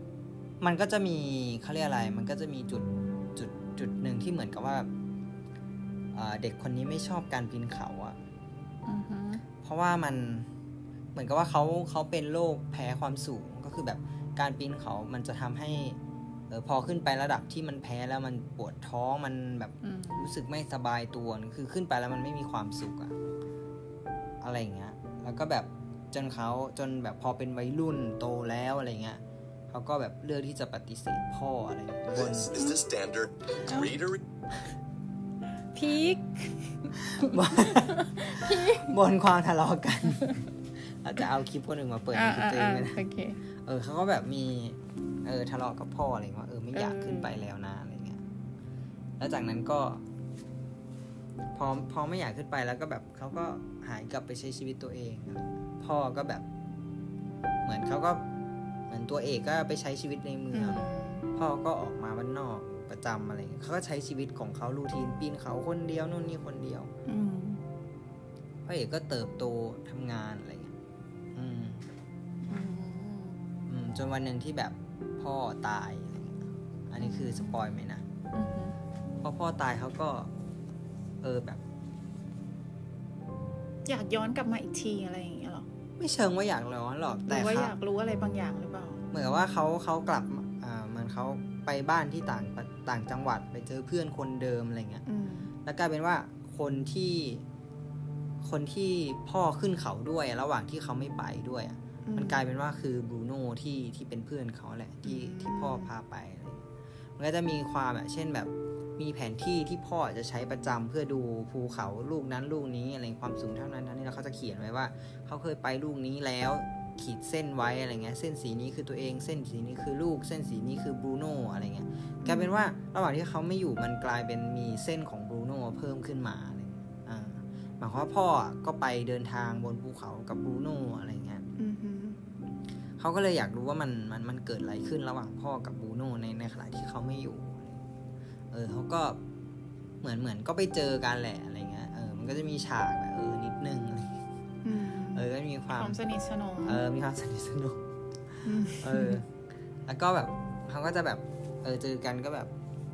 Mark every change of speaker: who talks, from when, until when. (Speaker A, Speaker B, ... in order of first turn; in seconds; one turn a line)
Speaker A: 0.6-4.9
Speaker A: 6.1-8.2
Speaker B: 8.8-9.4
Speaker A: 9.6-10.5
Speaker A: 11.1-16.0
Speaker A: 16.5-23.1
Speaker B: 19.8-20.3
Speaker A: 24.4-32.5
Speaker C: 32.1-34.2
Speaker B: 33.7-34.0
Speaker B: 35.7-38.9
Speaker A: 37.0-43.0
Speaker B: 40.1-40.4
Speaker B: 42.1-43.4
Speaker A: 43.6-48.2
Speaker B: 46.7-47.3
Speaker A: 49.2-50.0
Speaker A: 51.5-56.4
Speaker A: 57.6-58.2
Speaker A: 58.9-66.9
Speaker B: 60.5-61.2
Speaker B: 67.0-67.6
Speaker A: 68.7-70.7
Speaker A: 71.3-71.8
Speaker B: 72.5-73.4
Speaker A: 73.7-78.0
Speaker B: 77.0-77.6
Speaker B: 78.3-78.8
Speaker A: 79.2-80.3
Speaker A: 81.2-81.6
Speaker B: 83.8-85.7
Speaker A: 86.0-87.7
Speaker B: 87.2-89.0
Speaker A: 89.1-95.0
Speaker B: 95.0-95.5
Speaker A: 95.6-97.4
Speaker A: 98.4-106.6
Speaker B: 102.0-102.4
Speaker B: 105.0-105.9
Speaker A: 107.2-131.4
Speaker B: 122.2-122.5
Speaker B: 131.6-132.2
Speaker A: 133.0-137.8
Speaker A: 138.5-139.2
Speaker A: 140.0-144.2
Speaker B: 144.6-146.8
Speaker A: 145.1-146.0
Speaker A: 146.6-147.8
Speaker B: 148.4-149.2
Speaker A: 148.7-149.3
Speaker A: 149.9-152.5